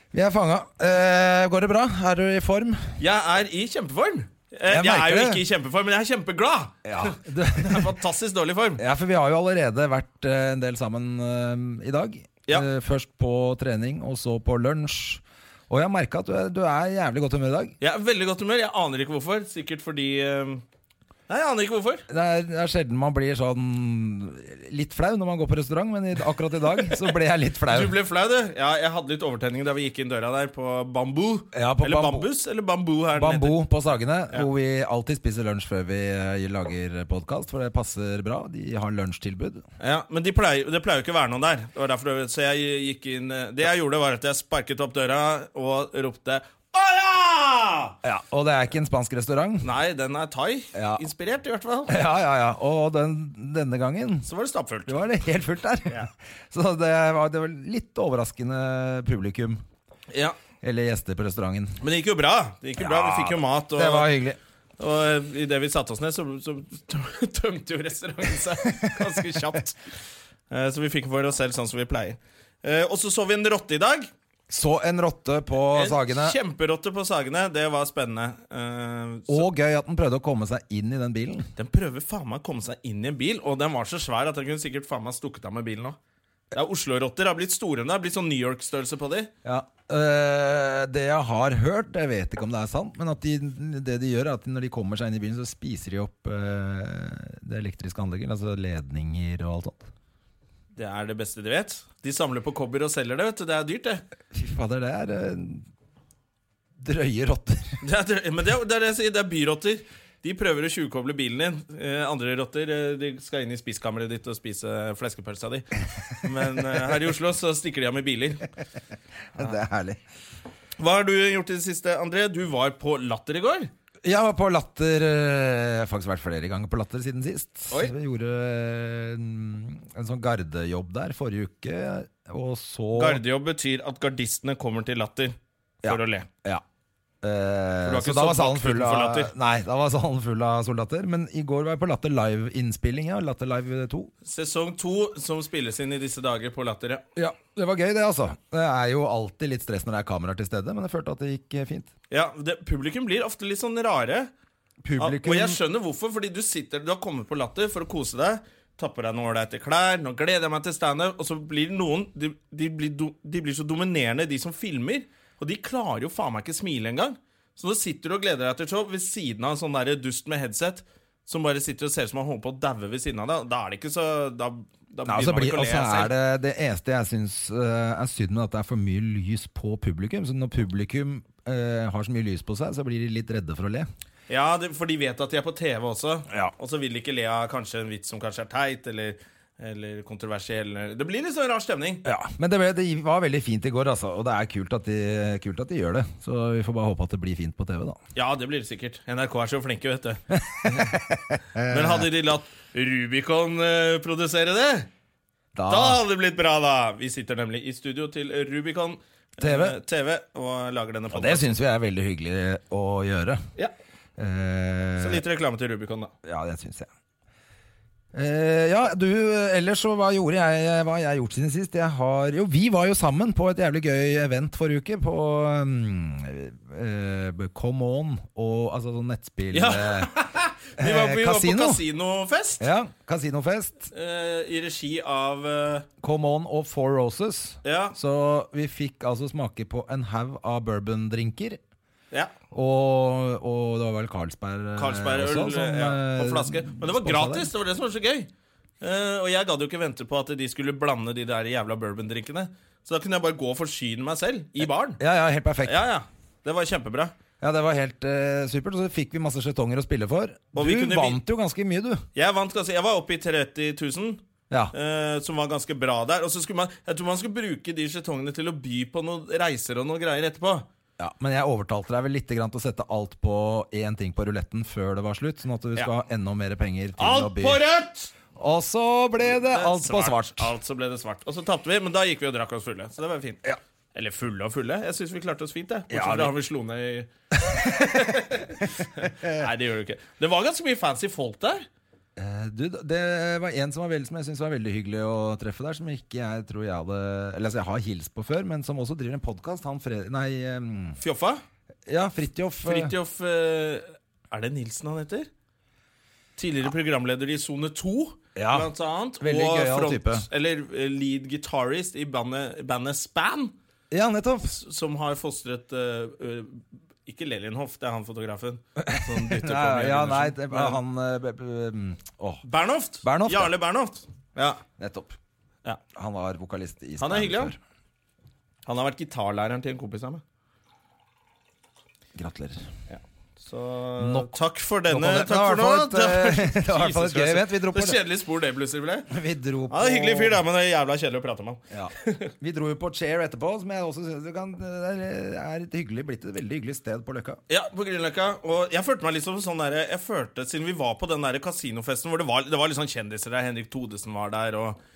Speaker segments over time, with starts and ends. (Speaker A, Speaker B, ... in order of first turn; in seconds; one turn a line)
Speaker A: 0.1-3.0
Speaker B: 3.0-8.8
Speaker A: 4.7-5.4
Speaker A: 6.8-7.9
Speaker A: 8.8-17.7
Speaker B: 17.8-20.6
Speaker B: 21.3-22.1
Speaker A: 22.1-27.9
Speaker B: 27.7-33.6
Speaker A: 31.5-32.3
Speaker A: 33.1-39.6
Speaker B: 39.8-48.0
Speaker A: 48.0-49.7
Speaker B: 49.6-51.9
Speaker A: 50.7-51.0
Speaker A: 51.9-54.3
Speaker B: 54.2-55.0
Speaker A: 54.9-59.6
Speaker B: 60.1-60.4
Speaker A: 60.6-61.8
Speaker B: 61.8-64.1
Speaker A: 62.8-64.4
Speaker B: 64.8-69.8
Speaker B: 70.5-74.1
Speaker A: 74.5-76.3
Speaker B: 75.7-79.4
Speaker A: 79.3-81.5
Speaker B: 81.6-86.0
Speaker B: 86.5-89.3
Speaker A: 89.4-99.9
Speaker B: 100.8-104.0
Speaker A: 104.3-105.6
Speaker A: 106.8-107.8
Speaker B: 107.8-118.5
Speaker A: 119.3-120.0
Speaker B: 120.8-123.7
Speaker A: 124.0-133.2
Speaker B: 132.9-136.3
Speaker A: 135.8-136.6
Speaker A: 137.2-144.1
Speaker B: 137.8-139.3
Speaker B: 144.2-147.0
Speaker A: 147.1-151.9
Speaker B: 152.1-154.3
Speaker A: 154.8-155.6
Speaker B: 155.0-176.1
Speaker A: 175.1-183.9
Speaker B: 184.3-192.0
Speaker A: 192.0-198.0
Speaker B: 198.1-201.0
Speaker A: 200.3-202.1
Speaker B: 201.7-204.9
Speaker A: 205.5-206.0
Speaker B: 205.7-211.5
Speaker A: 209.4-209.8
Speaker A: 211.1-213.4
Speaker A: 214.2-215.2
Speaker B: 215.0-216.1
Speaker A: 216.2-216.9
Speaker A: 218.1-230.1
Speaker B: 229.5-232.7
Speaker A: 230.8-231.8
Speaker A: 232.6-233.9
Speaker B: 233.9-235.9
Speaker A: 236.0-241.6
Speaker B: 237.6-237.9
Speaker A: 242.5-247.5
Speaker B: 244.8-248.3
Speaker B: 248.8-255.0
Speaker A: 254.6-255.8
Speaker B: 255.6-257.1
Speaker A: 257.4-262.1
Speaker B: 260.5-261.2
Speaker B: 262.1-264.2
Speaker B: 264.7-270.7
Speaker A: 271.0-277.6
Speaker B: 277.0-278.1
Speaker A: 278.3-280.5
Speaker B: 279.2-291.6
Speaker A: 285.9-286.3
Speaker A: 287.5-288.1
Speaker A: 292.1-301.0
Speaker B: 301.0-301.4
Speaker A: 301.9-302.9
Speaker B: 302.6-305.3
Speaker B: 306.4-313.5
Speaker A: 308.3-310.2
Speaker A: 313.9-314.6
Speaker B: 314.5-320.8
Speaker A: 318.8-322.4
Speaker B: 322.4-324.6
Speaker A: 323.0-323.5
Speaker A: 324.8-325.1
Speaker A: 325.9-327.6
Speaker B: 327.0-327.5
Speaker B: 328.6-330.2
Speaker A: 332.1-332.6
Speaker B: 332.9-339.1
Speaker A: 334.0-334.4
Speaker A: 334.9-338.0
Speaker A: 339.1-340.4
Speaker B: 339.7-342.3
Speaker A: 341.7-347.4
Speaker B: 347.5-354.8